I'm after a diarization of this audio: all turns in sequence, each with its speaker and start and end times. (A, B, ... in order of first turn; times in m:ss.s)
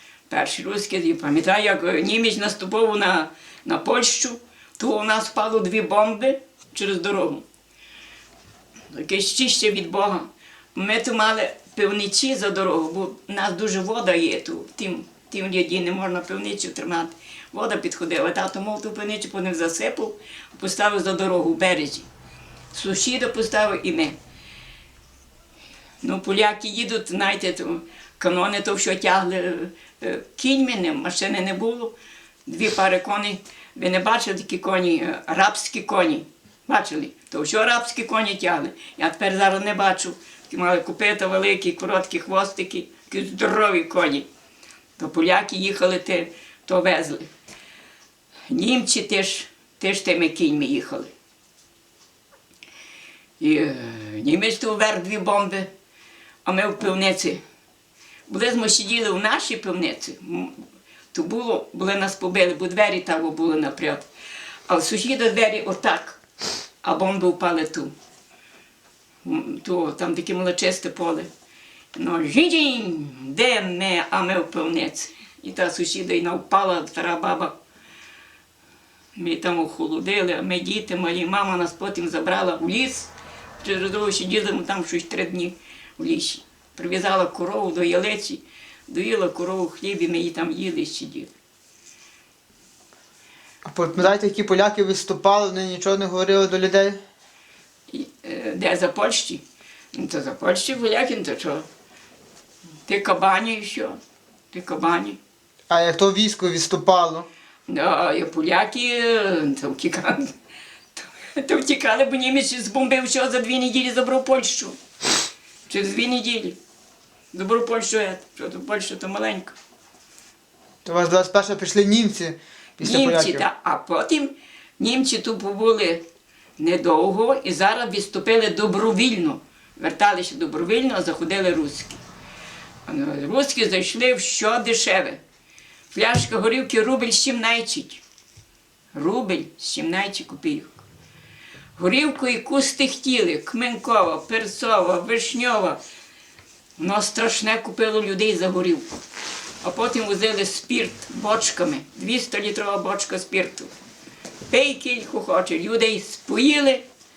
0:00.3-0:07.4 A
0:08.9-0:22.1 A
0:22.7-0:24.2 A
0:26.0-0:31.9 A
0:32.4-0:44.2 A
0:45.0-0:47.2 A
0:48.5-0:51.1 A
0:53.4-0:55.7 A
0:56.4-0:57.4 A
0:58.3-1:00.6 A
1:01.1-1:04.1 A
1:04.7-1:06.2 A
1:06.8-1:07.9 A
1:09.2-1:11.3 A
1:11.9-1:17.6 A
1:19.2-1:23.1 A
1:23.6-1:31.3 A
1:33.6-1:37.0 B
1:37.9-1:39.4 A
1:39.9-1:41.7 A
1:42.8-1:44.0 A
1:44.5-1:45.2 A
1:45.7-1:47.3 B
1:47.7-1:50.3 A
1:51.0-1:54.8 A
1:55.7-1:56.6 A
1:57.3-1:59.6 A
2:00.8-2:03.4 B
2:02.8-2:06.0 A
2:06.6-2:12.0 A
2:12.8-2:15.2 A
2:15.9-2:18.0 A
2:18.9-2:20.8 A
2:21.8-2:25.8 A
2:26.8-2:28.8 A
2:29.6-2:33.7 A
2:34.5-2:36.8 A